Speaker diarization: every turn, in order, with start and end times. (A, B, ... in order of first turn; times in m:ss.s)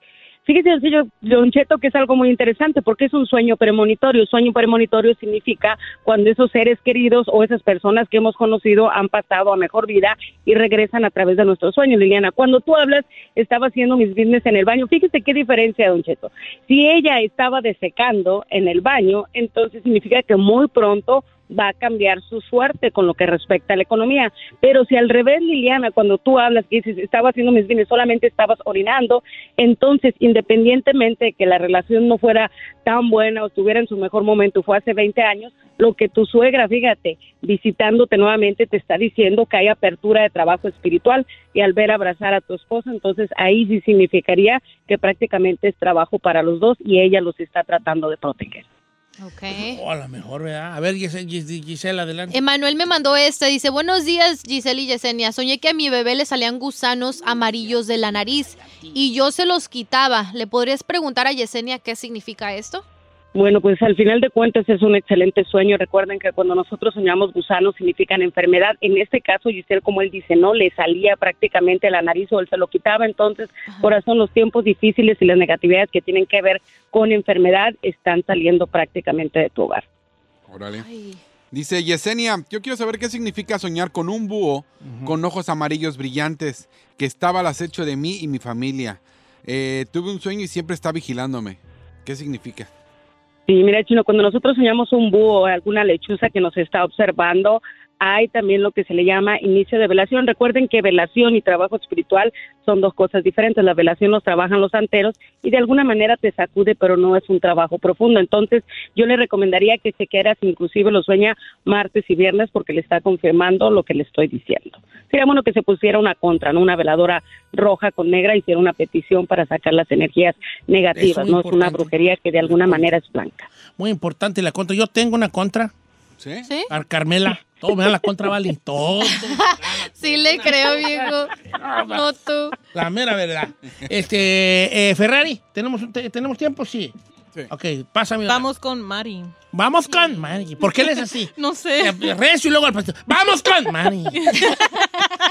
0:00.5-0:48.6 A
0:49.2-0:49.8 B
0:49.5-0:52.4 C
0:52.3-1:02.8 B
0:57.5-0:57.8 C
0:58.5-0:59.0 C
1:03.4-1:19.8 A
1:13.7-1:13.9 B
1:20.5-1:20.9 D
1:20.7-1:21.2 B
1:21.5-1:32.7 D
1:24.8-1:25.1 C
1:33.5-2:03.5 A
2:00.9-2:02.9 C
2:03.8-2:05.7 C
2:06.2-2:06.5 D
2:06.7-2:09.4 C
2:09.1-2:12.5 B
2:10.1-2:10.8 C
2:12.7-2:16.9 C
2:17.5-2:18.5 C
2:18.3-2:19.3 E
2:19.5-2:24.2 C
2:21.2-2:22.1 E
2:24.2-2:24.6 E